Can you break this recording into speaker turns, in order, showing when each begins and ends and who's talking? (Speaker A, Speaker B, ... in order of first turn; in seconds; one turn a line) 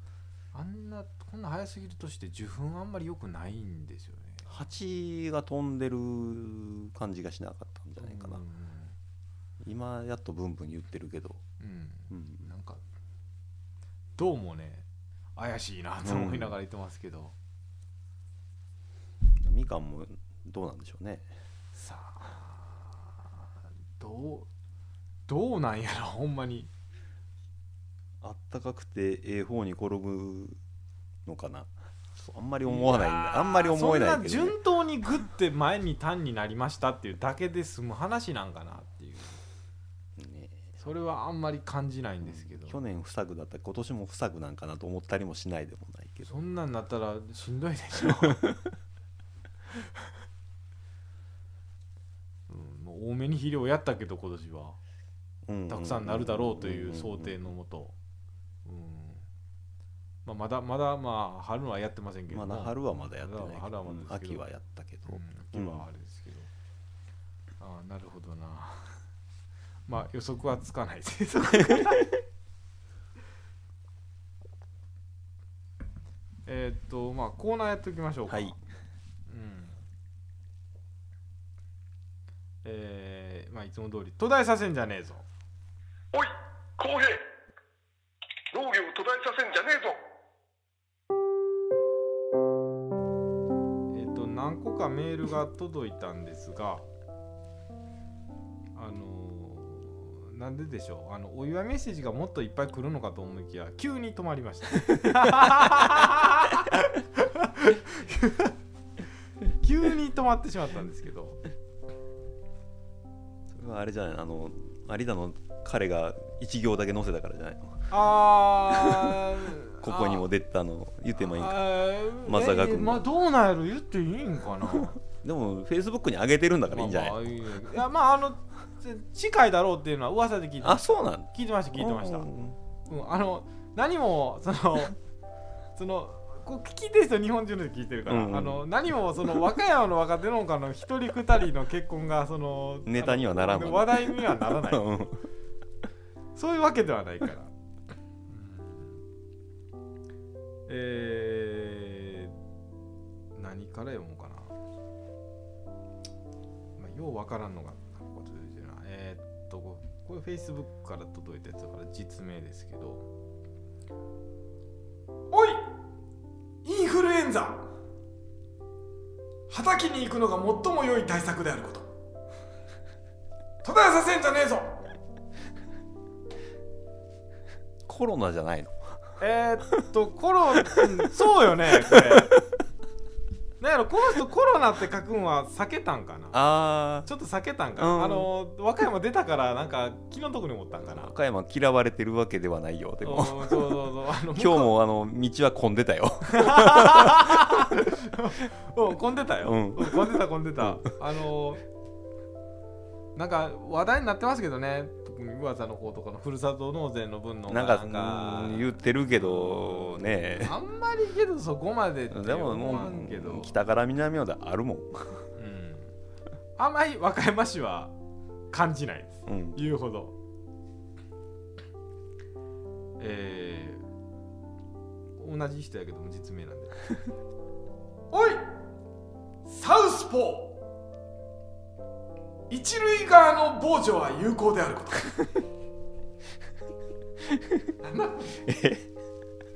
Speaker A: 0.5-4.5
Speaker B: 4.5-8.4
Speaker A: 8.0-8.9
Speaker B: 9.6-11.4
Speaker A: 11.6-12.8
Speaker B: 12.1-12.5
Speaker A: 14.2-14.8
Speaker A: 15.3-17.3
Speaker B: 16.0-16.5
Speaker B: 19.4-21.3
Speaker A: 21.7-23.1
Speaker A: 24.0-24.5
Speaker A: 25.3-26.7
Speaker B: 28.2-30.6
Speaker B: 31.2-34.5
Speaker A: 32.6-39.4
Speaker B: 40.2-40.6
Speaker A: 40.8-42.8
Speaker B: 42.2-46.3
Speaker A: 46.2-48.4
Speaker A: 52.5-54.8
Speaker B: 55.5-57.4
Speaker A: 55.7-57.9
Speaker A: 58.6-59.2
Speaker A: 60.2-64.4
Speaker B: 62.3-65.8
Speaker A: 65.1-66.5
Speaker A: 67.6-69.0
Speaker A: 69.9-72.1
Speaker A: 76.5-78.6
Speaker B: 78.3-78.6
Speaker A: 79.3-79.8
Speaker A: 82.6-85.2
Speaker C: 86.1-87.2
Speaker C: 88.5-90.0
Speaker A: 93.9-96.8
Speaker A: 98.7-108.5
Speaker A: 109.6-111.4
Speaker B: 113.5-117.9
Speaker A: 117.9-120.3
Speaker B: 118.7-119.2
Speaker B: 119.8-121.6
Speaker A: 121.2-124.9
Speaker B: 122.2-123.0
Speaker B: 125.0-127.2
Speaker A: 126.7-132.3
Speaker B: 130.6-132.6
Speaker A: 132.9-134.9
Speaker A: 135.8-144.8
Speaker B: 138.1-138.7
Speaker B: 142.8-145.2
Speaker A: 146.3-147.5
Speaker A: 148.3-148.8
Speaker A: 150.7-152.3
Speaker A: 153.3-154.5
Speaker A: 156.8-163.1
Speaker A: 165.3-165.7
Speaker A: 166.6-167.7
Speaker A: 169.5-171.8
Speaker A: 173.6-174.8
Speaker B: 177.9-178.8
Speaker A: 179.2-182.3
Speaker B: 181.9-182.4
Speaker A: 183.6-186.4
Speaker B: 186.3-187.1
Speaker A: 187.1-191.1
Speaker B: 187.8-188.3
Speaker B: 190.8-197.8
Speaker A: 193.0-194.7
Speaker A: 196.3-201.6
Speaker B: 199.4-200.9
Speaker A: 203.2-213.5
Speaker B: 207.5-210.5
Speaker B: 212.1-215.2
Speaker A: 215.3-215.9
Speaker A: 216.6-217.9
Speaker A: 218.5-220.1
Speaker B: 219.2-219.6
Speaker A: 223.0-223.8
Speaker A: 225.2-226.8
Speaker A: 228.1-228.4
Speaker A: 229.4-230.6
Speaker A: 232.5-235.3
Speaker A: 237.8-238.4
Speaker B: 238.4-238.9